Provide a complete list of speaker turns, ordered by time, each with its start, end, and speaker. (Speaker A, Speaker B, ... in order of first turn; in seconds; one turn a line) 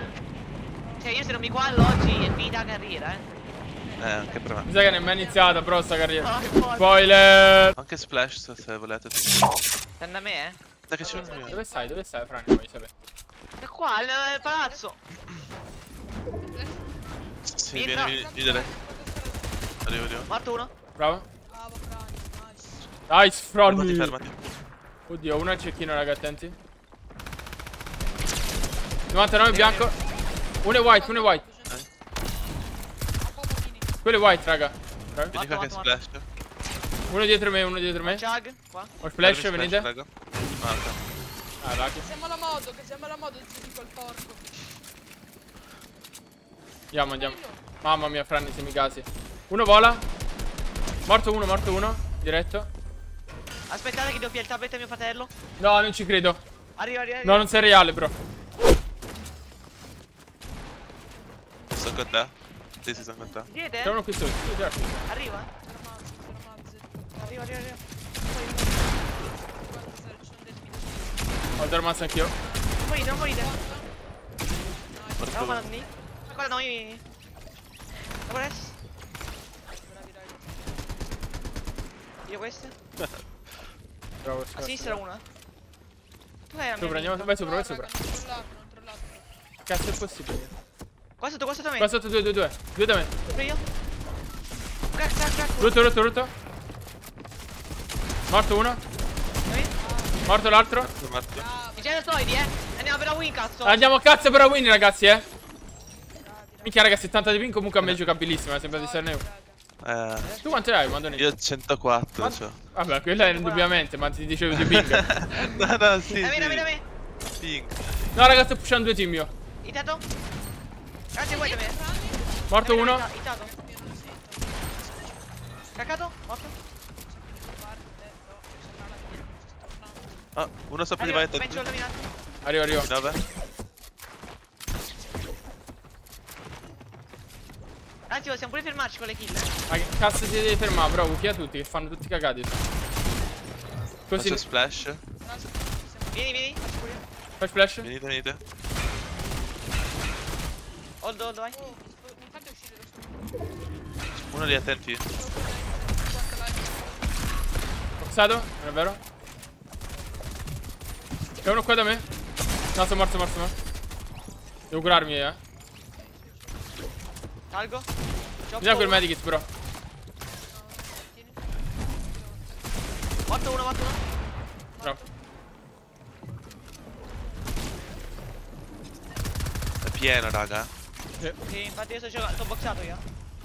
Speaker A: 0.8-1.5
Speaker B: 1.0-3.3
Speaker A: 3.7-5.7
Speaker C: 4.0-4.7
Speaker D: 4.7-7.8
Speaker B: 6.2-7.0
Speaker C: 7.8-9.5
Speaker B: 10.0-11.4
Speaker C: 10.9-11.6
Speaker A: 11.0-12.0
Speaker D: 11.4-12.9
Speaker B: 13.6-15.0
Speaker A: 13.9-14.8
Speaker A: 16.4-16.9
Speaker C: 17.4-18.7
Speaker B: 17.7-18.2
Speaker A: 17.9-19.7
Speaker C: 19.8-20.3
Speaker B: 20.3-20.7
Speaker D: 21.0-21.3
Speaker A: 21.5-22.9
Speaker D: 23.1-24.2
Speaker C: 23.6-24.4
Speaker D: 25.1-26.6
Speaker D: 29.1-29.9
Speaker B: 29.5-29.9
Speaker D: 30.6-31.4
Speaker A: 30.7-31.9
Speaker A: 33.2-33.9
Speaker D: 34.0-35.4
Speaker C: 35.3-36.3
Speaker B: 35.3-36.0
Speaker D: 37.1-38.3
Speaker B: 38.0-38.9
Speaker D: 39.0-39.9
Speaker C: 39.2-41.0
Speaker D: 41.6-42.0
Speaker A: 42.0-44.8
Speaker D: 46.9-50.0
Speaker A: 47.1-47.6
Speaker D: 51.1-52.7
Speaker B: 53.7-55.3
Speaker D: 55.6-56.4
Speaker B: 56.8-57.5
Speaker D: 57.2-58.1
Speaker C: 61.7-63.5
Speaker A: 61.8-62.3
Speaker A: 62.9-64.0
Speaker B: 63.5-64.0
Speaker D: 63.8-65.1
Speaker B: 65.1-65.5
Speaker A: 65.6-67.6
Speaker B: 67.2-68.8
Speaker A: 68.4-73.9
Speaker D: 71.6-72.3
Speaker B: 72.8-73.5
Speaker A: 74.8-76.0
Speaker C: 75.2-75.7
Speaker B: 75.2-77.0
Speaker B: 78.3-78.8
Speaker A: 79.8-80.8
Speaker B: 82.3-82.8
Speaker C: 83.0-83.2
Speaker D: 84.2-85.0
Speaker B: 84.5-85.2
Speaker B: 86.5-87.4
Speaker D: 86.8-87.9
Speaker A: 87.4-89.3
Speaker D: 89.7-90.5
Speaker B: 91.2-91.9
Speaker D: 91.8-93.1
Speaker B: 93.3-93.6
Speaker B: 94.9-95.8
Speaker D: 95.6-96.3
Speaker D: 98.3-98.8
Speaker B: 99.5-99.7
Speaker A: 99.8-100.4
Speaker D: 100.2-100.9
Speaker C: 100.8-101.5
Speaker A: 101.4-102.8
Speaker B: 101.8-103.8
Speaker D: 103.6-105.2
Speaker A: 106.2-107.0
Speaker D: 106.6-109.2
Speaker A: 108.6-109.6
Speaker C: 109.8-110.3
Speaker B: 110.2-110.6
Speaker D: 110.4-111.3
Speaker C: 111.1-112.6
Speaker D: 112.2-115.1
Speaker B: 113.1-113.8
Speaker C: 114.5-116.7
Speaker B: 116.2-116.8
Speaker C: 117.4-118.1
Speaker D: 118.1-119.3
Speaker B: 119.6-120.1
Speaker B: 121.2-121.8
Speaker A: 121.2-122.5
Speaker D: 122.5-123.0
Speaker B: 122.6-123.5
Speaker A: 123.1-125.2
Speaker B: 125.8-126.5
Speaker A: 127.1-130.2
Speaker C: 130.3-131.7
Speaker B: 131.0-132.1
Speaker D: 132.4-132.9
Speaker C: 132.7-133.2
Speaker B: 138.1-139.5
Speaker D: 139.7-142.6
Speaker D: 144.1-144.4
Speaker C: 144.2-145.0
Speaker A: 145.2-146.7
Speaker B: 146.1-147.0
Speaker D: 147.4-147.9
Speaker C: 147.8-148.4
Speaker B: 151.0-151.6
Speaker A: 151.5-153.3
Speaker C: 154.3-155.1
Speaker A: 155.1-157.3
Speaker D: 158.0-159.0
Speaker D: 161.4-162.1
Speaker D: 162.8-163.5
Speaker D: 164.7-165.4
Speaker A: 165.9-166.7
Speaker B: 167.5-167.9
Speaker B: 168.5-169.1
Speaker D: 168.6-169.5
Speaker A: 170.5-172.7
Speaker B: 173.3-174.0
Speaker A: 174.7-175.1
Speaker C: 179.8-180.7
Speaker B: 181.4-183.0